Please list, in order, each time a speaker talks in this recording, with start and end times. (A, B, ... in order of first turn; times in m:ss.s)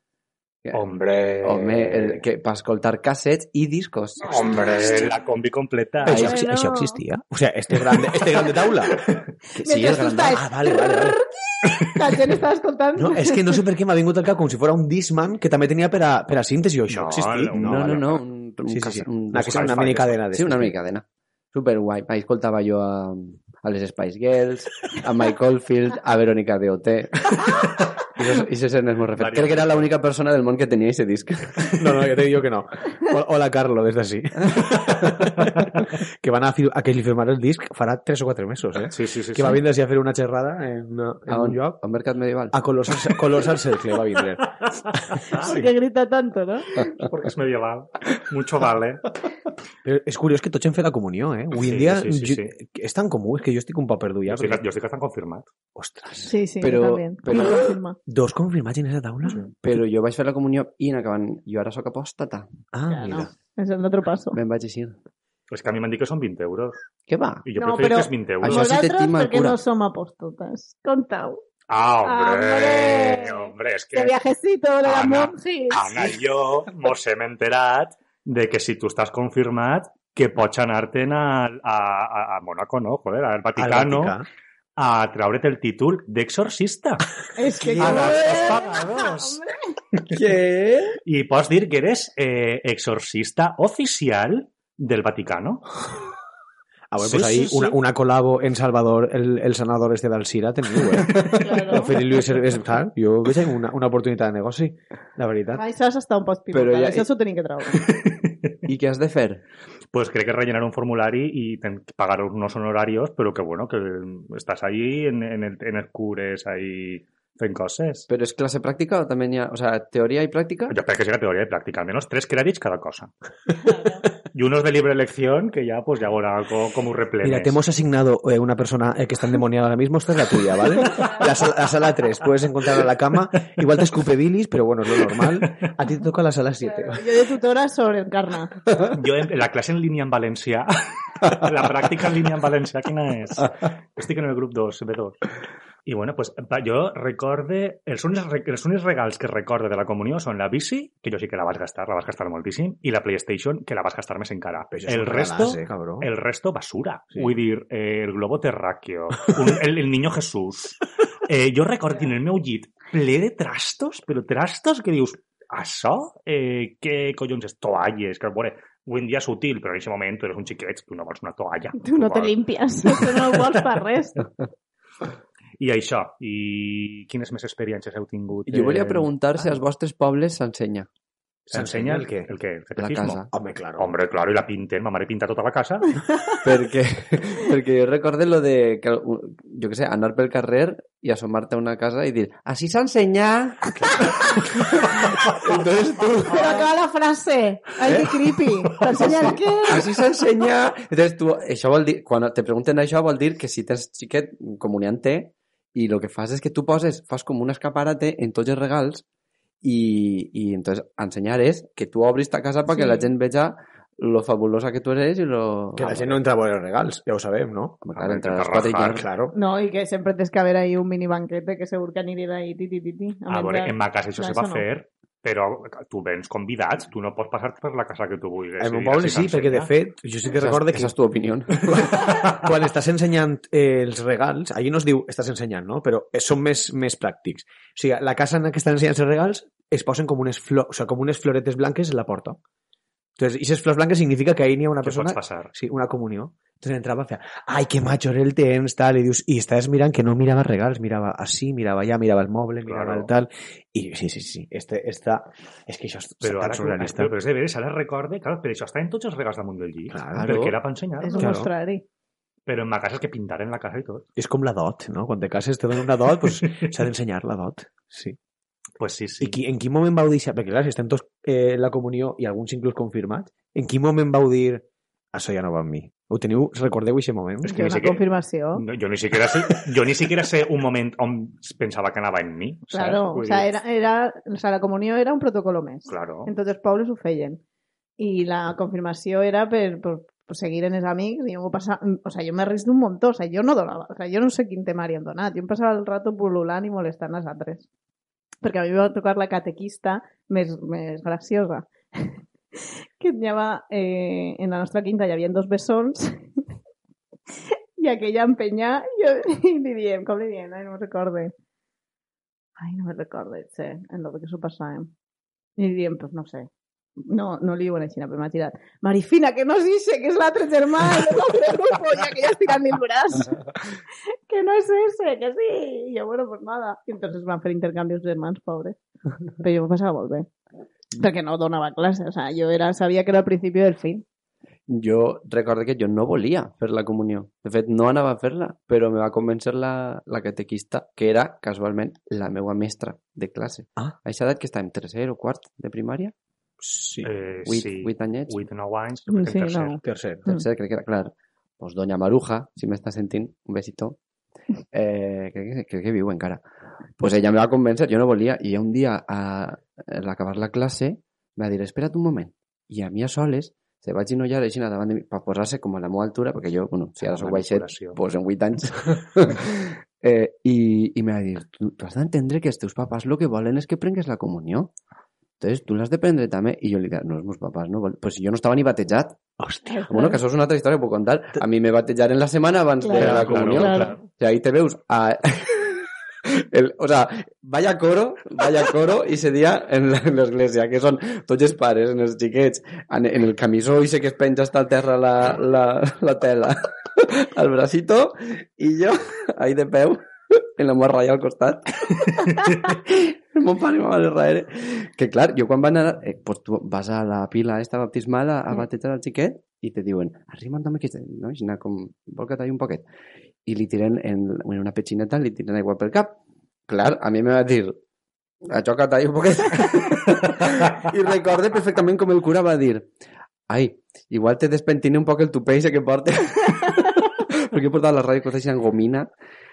0:00.6-0:00.9 A
0:00.7-0:02.2 B
0:01.4-0:05.1 A
0:04.2-0:06.3 B
0:06.0-0:09.1 C
0:06.1-0:07.0 D
0:07.9-0:09.2 B
0:09.6-0:10.4 A
0:09.6-0:13.6 D
0:09.8-0:11.2 C
0:13.0-0:20.8 C
0:16.9-0:18.2 B
0:17.6-0:31.8 A
0:19.5-0:20.1 B
0:29.2-0:29.9 B
0:31.8-0:41.8 C
0:38.9-0:39.6 B
0:41.3-0:42.6 A
0:42.5-0:44.5 C
0:44.8-0:45.6 B
0:45.4-0:46.9 D
0:47.0-0:49.0 B
0:49.8-0:54.6 C
0:51.6-0:52.5 B
0:54.3-0:55.5 B
0:55.8-0:56.4 C
0:56.3-0:58.0 D
0:56.6-0:57.7 A
0:58.1-0:59.5 C
0:59.6-1:02.5 A
1:02.7-1:03.3 C
1:02.9-1:04.4 D
1:04.3-1:05.0 A
1:05.5-1:06.8 B
1:07.1-1:07.4 A
1:07.4-1:08.7 B
1:07.6-1:11.4 D
1:08.4-1:09.6 A
1:11.7-1:14.1 B
1:12.0-1:15.8 D
1:14.8-1:24.2 B
1:23.6-1:24.3 C
1:24.8-1:27.0 B
1:27.4-1:29.7 D
1:27.6-1:28.5 C
1:27.8-1:29.4 B
1:30.1-1:31.0 A
1:31.0-1:35.6 B
1:36.9-1:45.6 C
1:37.0-1:37.7 B
1:41.4-1:42.0 D
1:45.5-1:47.9 D
1:46.5-1:47.1 A
1:47.9-1:48.2 B
1:48.7-1:49.4 A
1:49.9-1:58.1 B
1:58.1-2:00.8 A
2:00.7-2:03.1 B
2:04.3-2:07.6 B
2:07.2-2:17.0 C
2:16.6-2:18.5 D
2:18.9-2:25.2 B
2:25.9-2:53.4 B
2:34.7-2:36.1 C
2:51.8-2:54.2 D
2:55.6-2:59.1 B
2:58.5-3:00.9 A
3:01.5-3:06.0 B
3:01.5-3:02.3 C
3:02.8-3:03.3 A
3:03.3-3:04.0 C
3:06.4-3:16.7 A
3:16.3-3:19.9 D
3:17.8-3:18.2 A
3:18.9-3:29.0 A
3:29.6-3:36.2 A
3:32.7-3:33.1 D
3:35.8-3:37.8 C
3:37.8-3:39.0 A
3:38.0-3:39.0 B
3:38.9-3:39.4 C
3:39.3-3:44.6 D
3:43.3-3:49.7 B
3:48.6-3:50.9 C
3:50.4-3:52.1 A
3:51.6-4:02.4 C
4:03.2-4:17.1 C
4:04.8-4:05.5 B
4:12.6-4:13.1 B
4:16.2-4:21.4 B
4:19.9-4:20.4 C
4:20.2-4:20.6 A
4:21.0-4:21.8 D
4:21.2-4:21.5 C
4:22.5-4:24.1 B
4:24.2-4:28.2 C
4:28.8-4:29.4 B
4:29.2-4:37.7 C
4:37.4-4:38.0 B
4:37.5-4:38.6 D
4:38.6-4:43.5 B
4:42.7-4:47.4 D
4:45.9-4:46.3 B
4:48.0-4:57.7 D
4:58.4-5:02.1 D
5:03.0-5:06.2 D
5:07.8-5:11.3 D
5:12.6-5:14.9 D
5:15.6-5:23.5 D
5:24.3-5:28.8 D
5:29.4-5:30.3 D
5:31.0-5:34.0 D
5:34.7-5:46.1 A
5:46.6-5:47.1 C
5:47.0-5:49.8 B
5:47.5-5:48.4 A
5:49.1-5:50.4 D
5:49.8-5:50.3 C
5:50.3-5:54.0 A
5:54.7-5:56.4 A
5:57.0-6:14.7 A
6:07.0-6:08.0 B
6:15.4-6:19.2 A
6:19.4-6:19.7 C
6:19.7-6:20.2 D
6:19.9-6:52.9 A
6:22.8-6:24.0 D
6:23.0-6:24.0 B
6:23.0-6:23.5 C
6:53.5-6:56.2 A
6:56.7-6:57.8 A
6:58.5-7:02.9 A
7:03.5-7:09.1 A